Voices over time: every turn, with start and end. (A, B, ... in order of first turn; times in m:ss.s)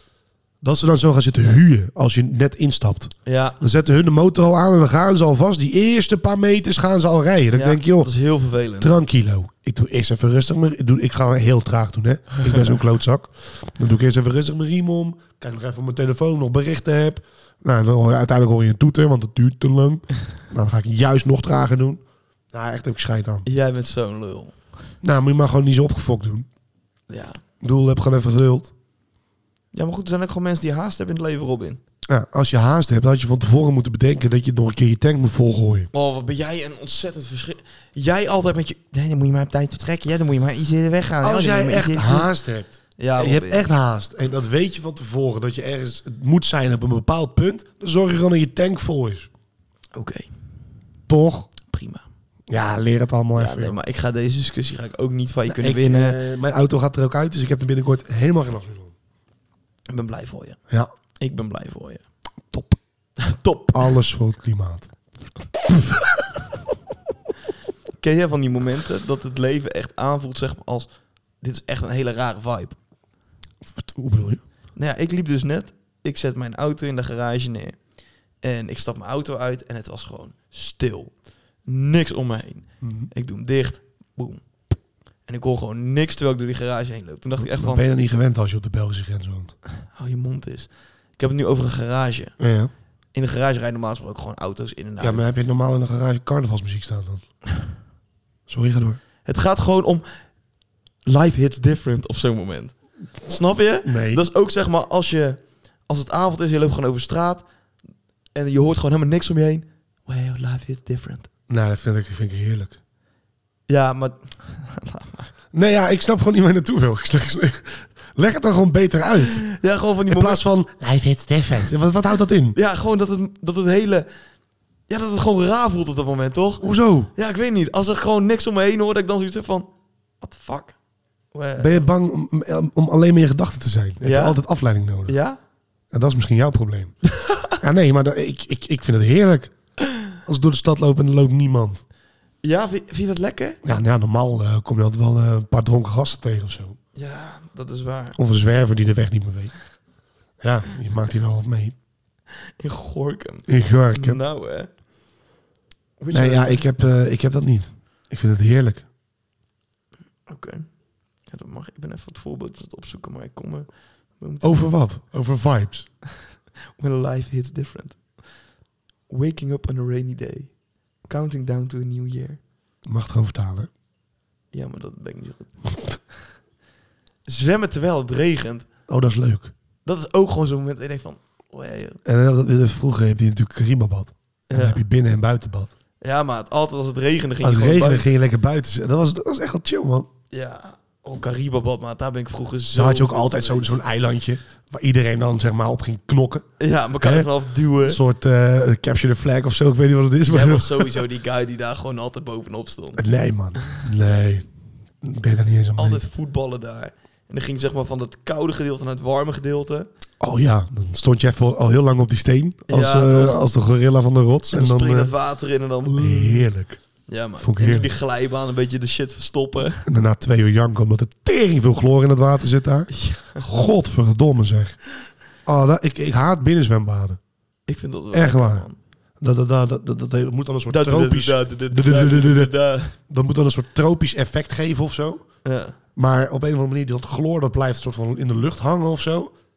0:00.6-0:08.1 A
0:03.3-0:03.6 B
0:07.5-0:08.9 B
0:08.8-0:23.5 A
0:12.4-0:12.8 B
0:23.5-0:24.6 B
0:25.0-0:26.5 A
0:27.1-0:27.4 B
0:27.6-0:28.7 A
0:29.7-0:31.8 B
0:32.1-0:35.9 A
0:35.9-0:42.3 B
0:41.2-0:49.3 A
0:43.0-0:43.7 B
0:49.9-0:50.3 B
0:51.1-0:51.5 A
0:51.7-0:52.0 B
0:52.5-0:53.8 A
0:53.4-0:56.2 B
0:55.5-0:58.9 A
0:59.9-1:00.6 B
1:01.2-1:02.0 B
1:02.5-1:02.8 A
1:03.2-1:04.0 B
1:03.7-1:04.9 A
1:05.7-1:06.2 A
1:08.0-1:12.8 B
1:13.6-1:14.4 A
1:14.8-1:17.8 B
1:18.4-1:24.5 B
1:22.8-1:23.1 A
1:25.3-1:27.8 B
1:27.4-1:29.6 A
1:29.9-1:32.4 B
1:32.4-1:32.7 A
1:33.1-1:35.3 B
1:35.0-1:37.2 A
1:38.5-1:39.0 A
1:39.2-1:40.1 B
1:41.1-1:47.5 B
1:43.8-1:44.2 A
1:48.3-1:51.3 B
1:51.5-1:52.8 A
1:53.7-1:55.3 B
1:55.5-1:59.4 A
1:59.4-2:00.4 B
2:00.1-2:02.6 A
2:02.6-2:04.1 B
2:04.9-2:10.8 B
2:06.6-2:07.1 A
2:11.3-2:11.9 B
2:11.6-2:15.2 A
2:14.0-2:14.4 B
2:15.1-2:15.4 B
2:15.9-2:19.5 A
2:20.2-2:21.8 A
2:22.4-2:23.6 B
2:23.6-2:26.8 A
2:27.0-2:28.2 B
2:28.2-2:29.6 A
2:30.4-2:31.8 A
2:32.6-2:34.7 B
2:33.5-2:34.2 A
2:36.0-2:36.7 B
2:36.1-2:38.9 A
2:40.3-2:40.7 B
2:41.3-2:44.7 B
2:44.4-2:45.9 A
2:46.8-2:48.2 B
2:49.1-2:50.5 B
2:51.0-2:52.4 B
2:52.8-2:53.7 A
2:54.5-2:55.5 B
2:57.3-2:58.7 B
2:58.9-2:59.5 A
2:59.8-3:02.0 B
3:02.0-3:05.7 A
3:04.5-3:04.8 B
3:06.0-3:08.1 B
3:07.4-3:10.1 A
3:10.3-3:13.8 B
3:12.7-3:16.5 A
3:16.6-3:18.0 B
3:17.0-3:17.3 A
3:17.8-3:21.1 A
3:20.2-3:23.0 B
3:23.0-3:24.5 A
3:25.0-3:26.0 A
3:25.8-3:29.9 B
3:30.2-3:35.1 A
3:32.7-3:33.4 B
3:34.5-3:36.5 B
3:35.9-3:36.8 A
3:37.1-3:39.9 B
3:37.4-3:37.9 A
3:39.9-3:44.8 A
3:42.9-3:43.5 B
3:45.4-3:47.2 A
3:47.7-3:48.8 B
3:48.1-3:48.7 A
3:49.2-3:55.3 A
3:50.7-3:53.0 B
3:55.4-3:55.8 B
3:56.0-3:59.3 A